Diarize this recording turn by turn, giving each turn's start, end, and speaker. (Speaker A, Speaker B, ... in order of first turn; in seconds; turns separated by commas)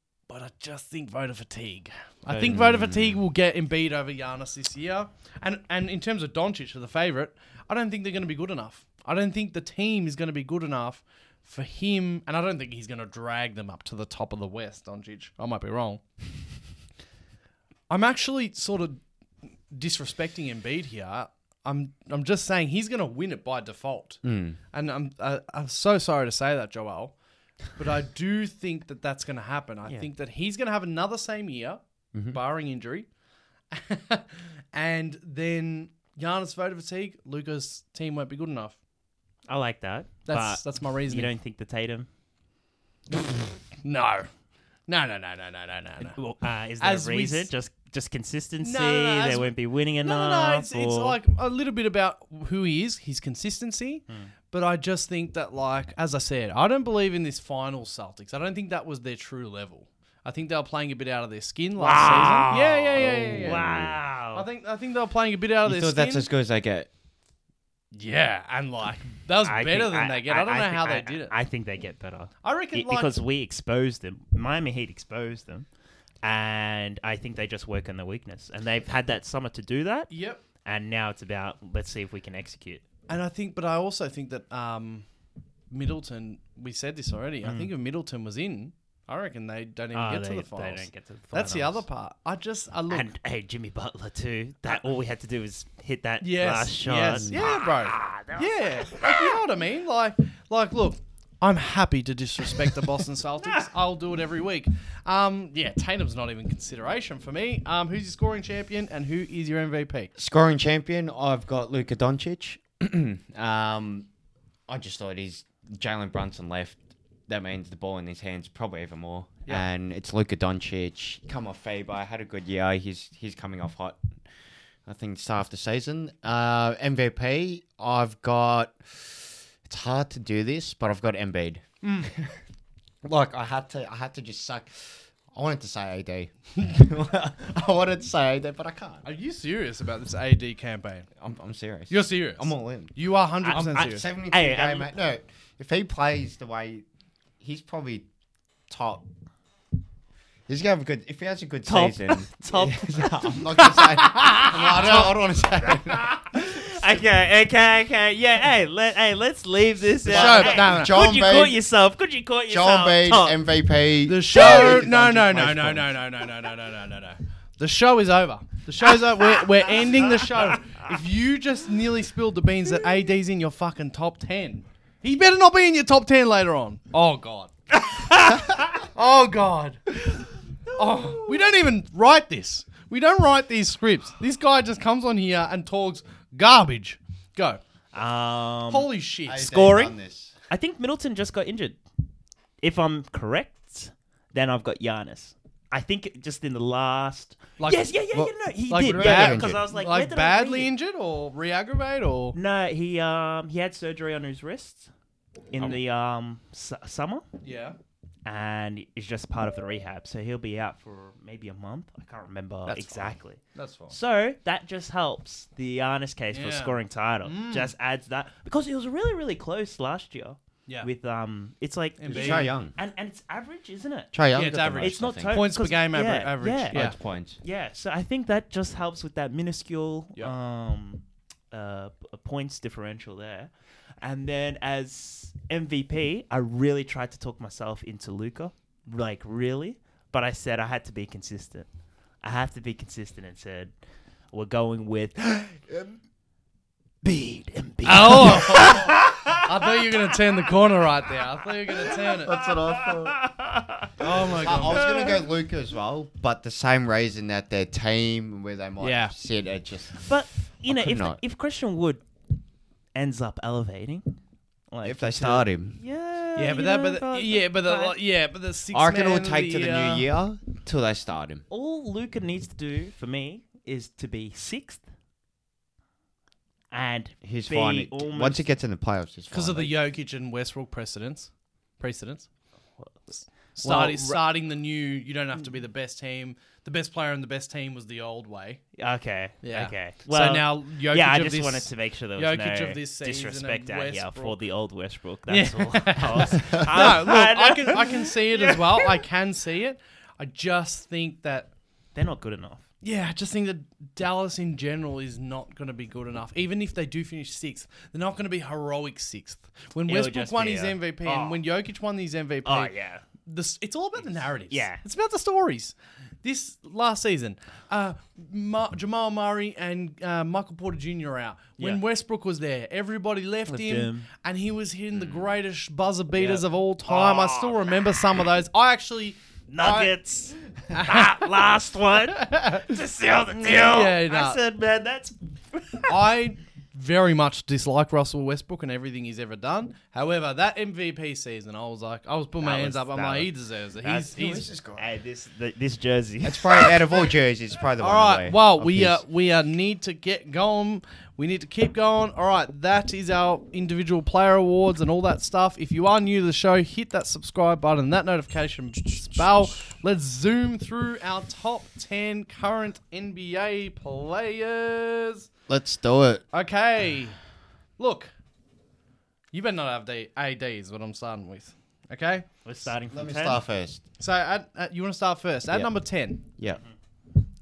Speaker A: 0.3-16.0, Speaker B: 2.3-3.2, Speaker A: 17.9-19.0, Speaker A: 19.7-27.1, Speaker B: 24.2-24.6, Speaker A: 27.7-33.1, Speaker B: 32.1-32.4, Speaker A: 33.7-38.8, Speaker C: 39.5-42.1, Speaker A: 40.2-41.3, Speaker A: 43.1-44.3, Speaker A: 44.9-46.2, Speaker C: 46.0-51.2, Speaker A: 46.8-47.5, Speaker A: 48.6-63.7, Speaker C: 61.8-64.5, Speaker B: 63.0-64.0, Speaker A: 64.3-66.3, Speaker B: 65.6-66.9, Speaker A: 67.9-71.3, Speaker C: 69.4-75.7, Speaker A: 72.4-73.2, Speaker C: 76.2-80.1, Speaker A: 80.1-80.4, Speaker C: 80.6-82.8, Speaker A: 83.1-85.0, Speaker A: 85.7-93.1, Speaker C: 87.4-87.7, Speaker C: 89.9-91.8, Speaker C: 92.9-99.4, Speaker A: 96.2-110.1, Speaker B: 110.2-114.1, Speaker B: 114.7-124.0, Speaker B: 124.8-132.3, Speaker A: 131.8-132.1, Speaker B: 133.0-139.0, Speaker A: 139.0-141.1, Speaker B: 141.2-142.9, Speaker A: 141.9-144.0, Speaker C: 143.4-144.9, Speaker B: 143.4-146.8, Speaker B: 147.4-148.1, Speaker B: 148.7-149.1, Speaker B: 150.5-156.2, Speaker C: 151.7-154.6, Speaker A: 154.3-155.0, Speaker C: 155.7-163.4, Speaker B: 160.1-161.6, Speaker A: 160.1-161.0, Speaker B: 162.5-165.9, Speaker A: 164.1-177.5, Speaker C: 164.3-164.9, Speaker C: 169.0-170.9, Speaker C: 177.8-178.8, Speaker A: 178.9-187.6, Speaker C: 180.7-181.6, Speaker C: 187.9-189.9, Speaker A: 188.7-189.6, Speaker B: 189.2-190.3, Speaker C: 190.5-191.8, Speaker C: 192.6-200.7, Speaker A: 197.6-198.0, Speaker B: 198.1-199.6, Speaker A: 198.7-202.4, Speaker C: 202.3-204.9, Speaker C: 205.5-207.2, Speaker A: 207.4-207.8, Speaker C: 208.2-226.9, Speaker A: 212.7-213.9, Speaker A: 216.3-217.7, Speaker A: 222.0-222.5, Speaker B: 222.1-222.7, Speaker B: 224.1-225.4, Speaker A: 224.3-226.9, Speaker B: 226.7-227.4, Speaker C: 227.4-241.7, Speaker C: 242.2-243.7, Speaker C: 244.3-245.7, Speaker C: 247.0-249.9, Speaker A: 247.8-252.4, Speaker C: 251.8-253.9, Speaker B: 252.2-253.2, Speaker A: 254.0-254.8, Speaker B: 254.0-260.1, Speaker C: 254.4-255.3, Speaker A: 258.8-259.1, Speaker C: 260.0-262.1, Speaker B: 260.7-261.2, Speaker C: 262.9-264.2, Speaker C: 264.7-268.0, Speaker B: 264.8-265.8, Speaker A: 266.4-270.1, Speaker B: 268.7-271.4, Speaker C: 271.5-274.8, Speaker C: 276.7-278.4, Speaker B: 277.2-279.7, Speaker A: 279.3-282.3, Speaker C: 282.8-284.2, Speaker A: 283.6-288.6, Speaker C: 288.8-298.9, Speaker A: 289.4-294.4, Speaker A: 295.3-301.5, Speaker C: 301.9-302.6, Speaker A: 302.8-312.7, Speaker C: 309.9-311.4, Speaker C: 312.4-313.0, Speaker A: 313.2-329.9, Speaker C: 314.5-314.8, Speaker C: 323.5-324.1, Speaker C: 326.2-328.0, Speaker C: 329.5-336.0, Speaker A: 330.7-331.3, Speaker A: 332.1-332.7, Speaker A: 333.4-334.4, Speaker A: 335.9-344.4, Speaker C: 342.4-346.8, Speaker B: 344.1-344.9, Speaker B: 346.2-349.0, Speaker A: 347.8-365.3, Speaker B: 365.5-366.2, Speaker A: 366.3-367.2, Speaker A: 367.8-368.1, Speaker A: 369.3-372.3, Speaker C: 372.4-373.4, Speaker B: 372.9-373.8, Speaker A: 374.0-376.2, Speaker B: 376.4-376.6